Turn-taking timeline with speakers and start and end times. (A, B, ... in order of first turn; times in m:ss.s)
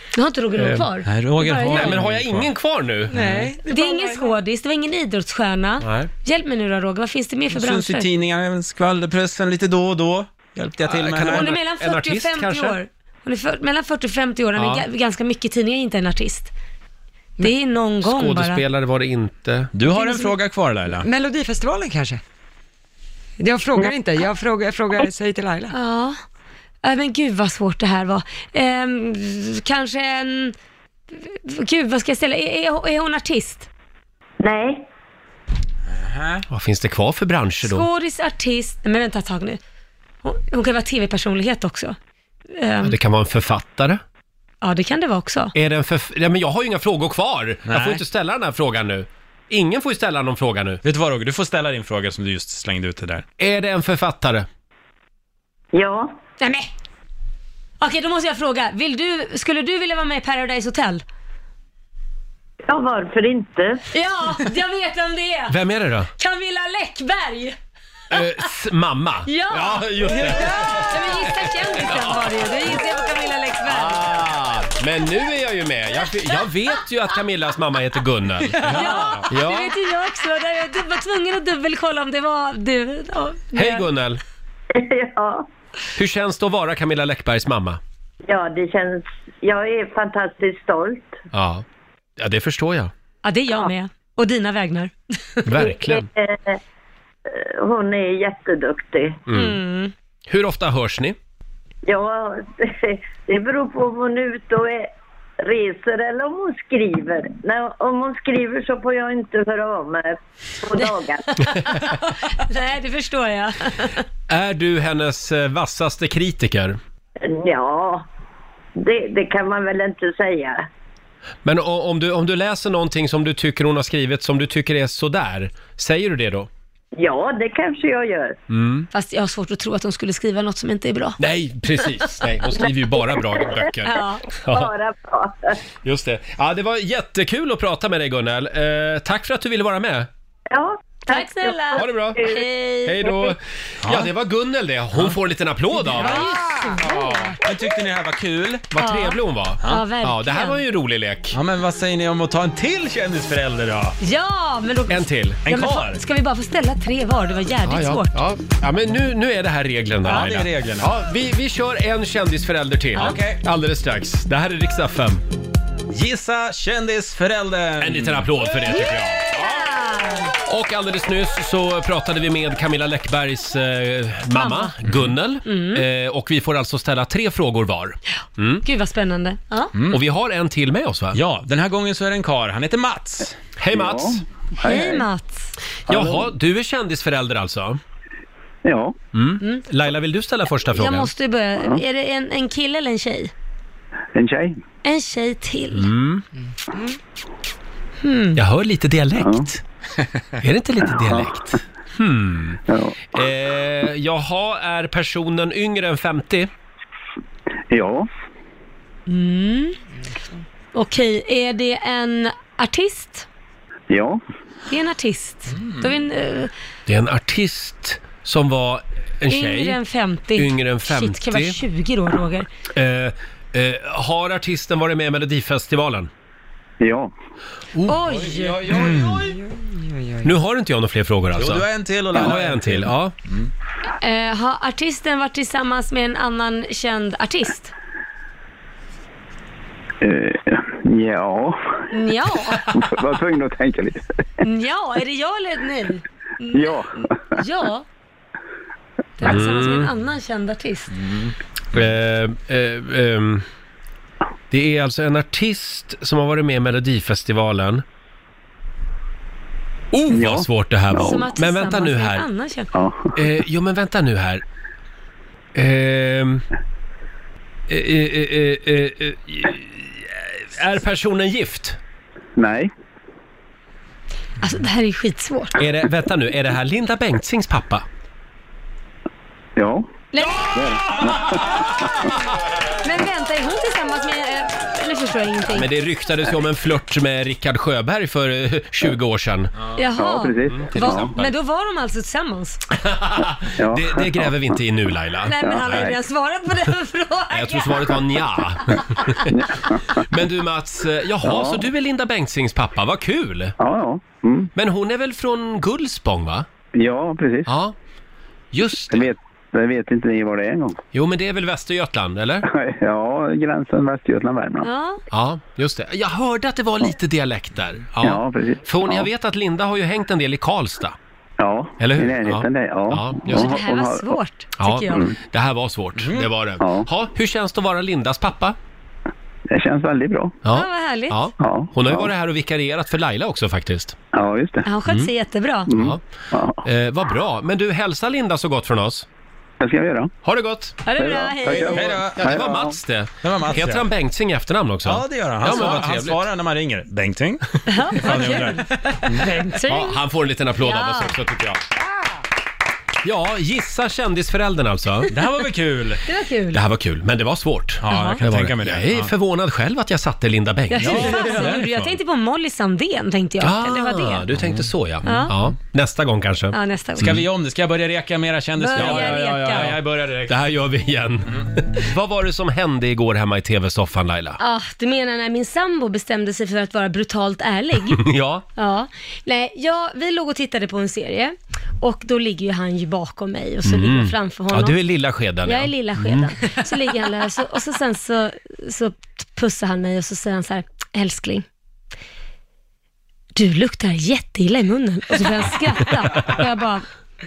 0:00.1-0:02.0 A
0:00.6-0:00.8 B
0:01.0-0:02.5 C
0:01.6-0:03.2 B
0:03.1-0:03.5 C
0:03.1-0:04.3 D
0:03.6-0:08.1 A
0:05.8-0:06.1 B
0:07.5-0:11.5 C
0:10.8-0:12.8 B
0:11.3-0:16.5 A
0:17.4-0:18.6 A
0:18.0-0:19.7 B
0:19.7-0:21.1 C
0:19.9-0:20.3 A
0:21.0-0:22.2 D
0:23.4-0:25.7 D
0:25.7-0:26.2 A
0:26.8-0:30.5 A
0:31.1-0:33.7 A
0:34.4-0:34.9 E
0:35.9-0:36.4 C
0:36.5-0:37.8 B
0:37.6-0:39.6 A
0:40.2-0:42.0 A
0:42.5-0:43.0 A
0:42.8-0:44.0 B
0:44.6-0:45.5 A
0:45.5-0:50.8 B
0:47.7-0:48.0 C
0:50.8-0:53.2 C
0:53.4-0:54.4 B
0:55.7-0:56.2 E
0:56.4-0:56.7 A
0:57.8-1:01.0 A
1:02.7-1:03.9 E
1:03.9-1:05.5 A
1:05.5-1:06.1 B
1:06.2-1:07.6 A
1:08.1-1:11.1 B
1:09.3-1:14.1 A
1:11.8-1:12.2 B
1:13.6-1:19.7 B
1:18.6-1:19.3 C
1:18.6-1:23.8 A
1:23.5-1:24.2 B
1:24.7-1:25.5 E
1:26.0-1:27.8 B
1:28.3-1:31.2 E
1:31.3-1:31.6 B
1:32.2-1:32.9 B
1:33.2-1:35.5 A
1:35.4-1:36.1 B
1:35.6-1:36.6 E
1:37.3-1:39.2 E
1:39.3-1:39.6 B
1:39.3-1:39.9 A
1:40.3-1:41.2 B
1:41.8-1:51.4 E
1:50.8-1:54.0 A
1:54.3-1:56.8 B
1:57.2-1:58.0 E
1:58.8-2:00.7 E
2:01.4-2:06.5 B
2:07.0-2:08.4 E
2:08.5-2:08.9 B
2:08.9-2:11.2 A
2:11.2-2:14.7 B
2:13.8-2:14.2 A
2:14.5-2:15.6 E
2:15.8-2:20.1 B
2:20.5-2:22.5 E
2:21.1-2:23.1 A
2:21.8-2:22.2 B
2:22.8-2:27.3 B
2:23.8-2:24.1 C
2:25.9-2:27.4 A
2:26.0-2:26.2 C
2:27.3-2:28.7 C
2:28.7-2:31.4 B
2:28.8-2:30.6 A
2:31.3-2:34.0 C
2:34.0-2:38.2 A
2:34.9-2:35.4 B
2:35.4-2:36.0 C
2:37.6-2:45.2 B
2:40.0-2:40.9 C
2:43.0-2:43.4 C
2:45.9-2:48.3 C
2:47.8-2:49.2 B
2:48.7-2:50.3 A
2:50.4-2:58.6 B
2:54.3-2:54.7 A
2:55.4-2:55.8 A
2:58.6-2:59.7 A
2:59.7-3:00.0 C
2:59.9-3:01.2 B
3:01.1-3:03.4 C
3:03.6-3:04.2 B
3:03.7-3:05.0 F
3:04.6-3:05.5 A
3:05.9-3:06.3 F
3:05.9-3:07.8 B
3:08.6-3:09.0 F
3:09.1-3:11.1 B
3:10.7-3:13.3 A
3:14.1-3:14.6 F
3:14.8-3:15.9 A
3:15.7-3:16.2 B
3:18.0-3:18.4 A
3:18.3-3:19.6 B
3:19.2-3:19.5 F
3:20.4-3:22.6 B
3:20.8-3:21.3 F
3:22.7-3:23.0 F
3:23.1-3:26.5 B
3:27.7-3:28.1 F
3:29.1-3:29.8 A
3:30.7-3:33.2 A
3:33.9-3:34.2 F
3:34.7-3:36.5 A
3:35.6-3:35.9 C
3:36.9-3:39.8 B
3:39.3-3:42.5 A
3:40.3-3:41.6 B
3:42.7-3:46.1 B
3:46.8-3:47.1 F
3:47.8-3:49.4 C
3:47.8-3:48.7 A
3:48.7-3:50.3 D
3:50.2-3:53.1 B
3:51.4-3:53.5 C
3:54.0-3:57.7 A
4:00.0-4:01.8 F
4:01.9-4:02.8 A
4:02.7-4:04.0 F
4:04.4-4:07.8 A
4:06.5-4:07.3 F
4:09.2-4:10.9 A
4:09.2-4:09.9 B
4:11.0-4:11.3 C
4:11.7-4:13.4 B
4:14.5-4:17.8 B
4:19.9-4:22.2 B
4:20.1-4:21.2 F
4:21.0-4:22.7 A
4:22.7-4:23.1 F
4:23.1-4:24.4 B
4:25.5-4:26.4 B
4:27.7-4:31.8 B
4:32.4-4:32.7 F
4:34.4-4:35.6 A
4:35.6-4:37.8 B
4:39.6-4:39.9 F
4:40.1-4:40.9 A
4:40.5-4:41.7 F
4:40.9-4:41.9 C
4:42.8-4:45.7 A
4:45.5-4:49.5 B
4:49.8-4:52.6 A
4:49.9-4:51.1 F
4:50.5-4:51.3 B
4:52.7-4:55.8 B
4:53.6-4:54.4 F
4:55.2-4:58.0 A
4:55.4-4:56.0 F
4:57.3-4:59.3 B
4:59.3-5:00.0 F
5:00.0-5:03.5 B
5:01.2-5:01.6 F
5:03.6-5:04.5 F
5:04.5-5:06.5 B
5:06.7-5:07.5 F
5:07.4-5:07.7 B
5:08.5-5:09.1 B
5:08.9-5:10.8 F
5:10.9-5:12.4 B
5:12.5-5:14.7 F
5:14.6-5:15.0 A
5:15.1-5:20.9 B
5:18.0-5:19.1 F
5:21.4-5:24.2 F
5:21.8-5:23.6 B
5:23.3-5:25.0 A
5:24.6-5:28.6 B
5:26.0-5:26.3 C
5:26.6-5:26.9 F
5:29.5-5:30.4 F
5:30.4-5:34.0 B
5:30.5-5:31.2 A
5:31.4-5:32.1 F
5:34.1-5:34.6 F
5:34.6-5:35.7 A
5:35.7-5:36.6 F
5:35.7-5:36.0 B
5:36.6-5:39.0 B
5:39.6-5:40.1 F
5:40.2-5:40.8 B
5:40.8-5:41.9 A
5:40.9-5:42.8 F
5:41.6-5:42.4 C
5:42.0-5:46.2 B
5:43.2-5:43.9 C
5:44.8-5:49.6 C
5:47.7-5:50.0 A
5:49.6-5:51.1 B
5:50.6-5:51.1 A
5:51.1-5:51.6 C
5:53.0-5:55.1 B
5:55.1-5:56.0 C
5:56.0-5:56.6 A
5:56.5-6:01.6 B
5:57.8-5:59.1 C
5:57.9-5:58.2 A
6:00.7-6:04.2 A
6:00.8-6:01.9 C
6:03.4-6:07.2 B
6:04.4-6:05.3 C
6:05.0-6:05.3 A
6:06.5-6:07.2 A
6:07.0-6:10.4 C
6:08.6-6:09.7 A
6:08.7-6:14.4 B
6:14.4-6:18.0 A
6:17.9-6:18.4 B
6:18.6-6:24.8 A
6:23.6-6:26.3 B
6:25.4-6:31.4 A
6:33.4-6:36.8 A